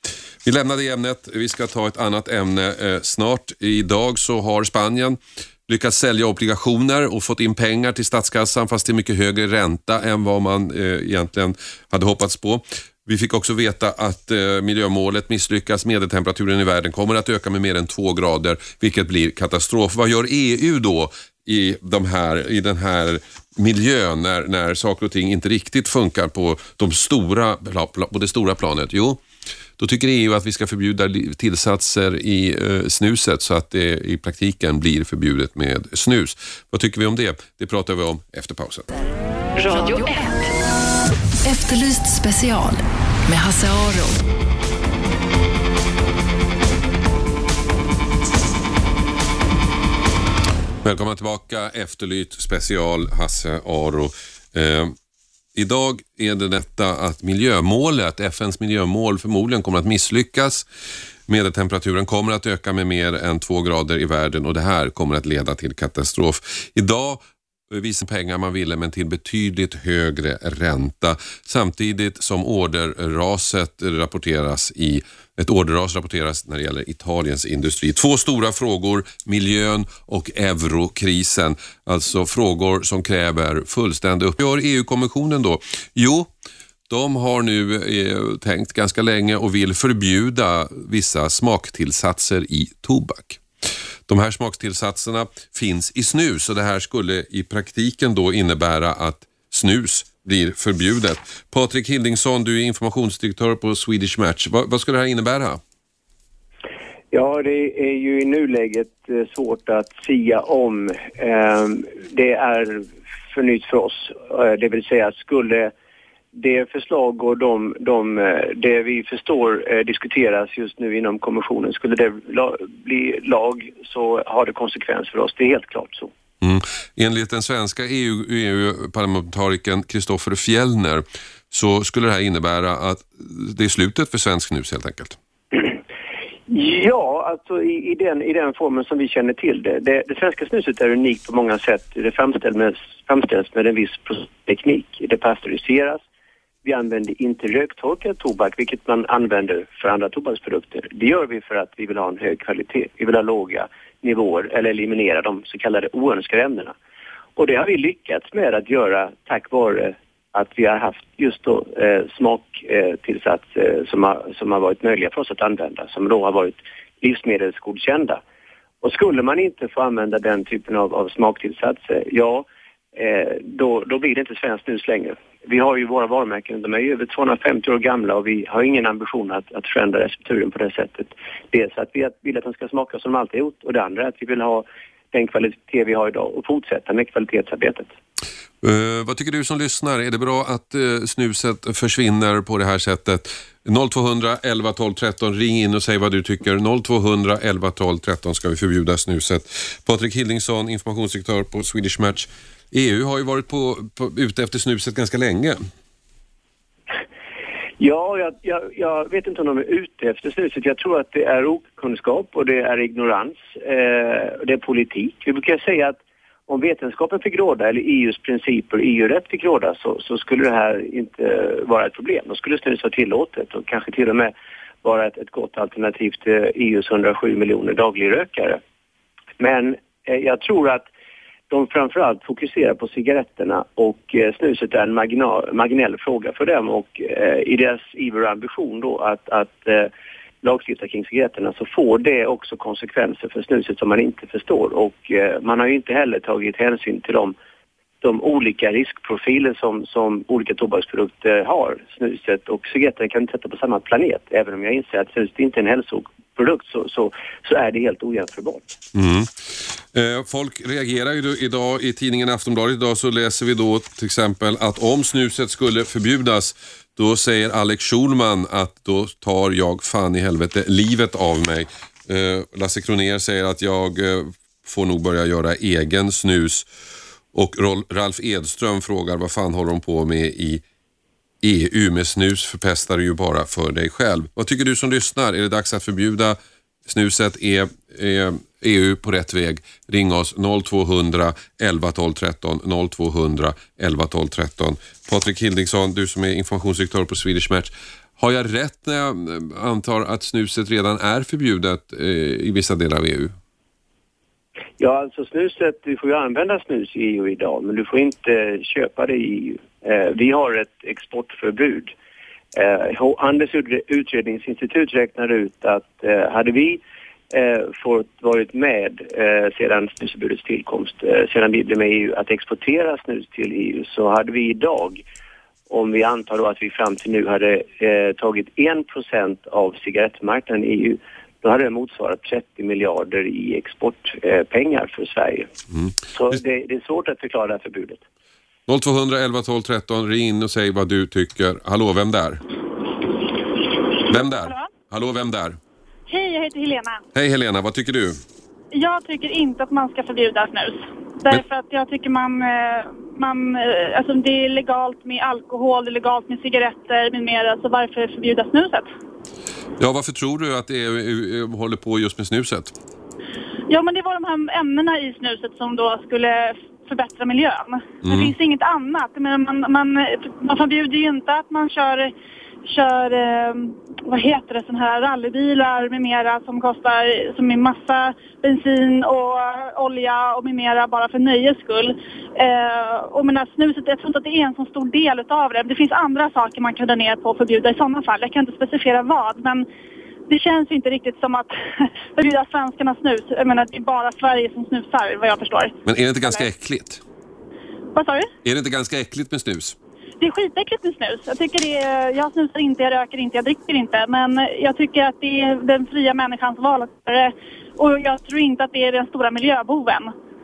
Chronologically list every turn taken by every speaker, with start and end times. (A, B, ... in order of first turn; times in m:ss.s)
0:00.4-0:29.2 A
0:29.8-0:38.9 A
0:39.6-0:40.7 B
0:41.4-0:44.2 B
0:50.8-0:54.9 A
0:55.5-1:00.6 A
1:01.3-1:26.3 A
1:26.9-1:33.4 A
1:34.1-1:45.6 A
1:47.1-1:55.7 C
1:56.3-2:06.1 C
2:06.4-2:15.2 A
2:16.5-2:26.0 C
2:26.6-2:36.7 C
2:37.4-2:48.2 C
2:48.8-3:07.9 C
3:08.6-3:25.6 A
3:27.8-3:44.3 C
3:44.8-3:48.6 C
3:49.4-3:50.8 C
3:51.5-3:59.9 C
4:00.4-4:07.3 C
4:08.0-4:18.8 C
4:18.9-4:36.6 A
4:37.3-4:40.6 A
4:41.4-5:03.3 A
5:04.8-5:11.9 C
5:12.5-5:25.0 C
5:25.7-5:35.5 C
5:36.1-5:38.0 C
5:38.7-5:42.4 A
5:44.1-5:45.6 A
5:44.1-5:44.7 D
5:46.1-5:47.0 D
5:47.1-5:48.2 A
5:48.7-5:58.9 D
5:59.8-6:02.8 A
6:03.7-6:12.1 D
6:08.0-6:08.3 A
6:12.6-6:29.6 D
6:30.3-6:36.5 D
6:35.8-6:37.0 A
6:37.9-6:38.3 D
6:38.4-6:39.8 A
6:40.2-6:50.1 D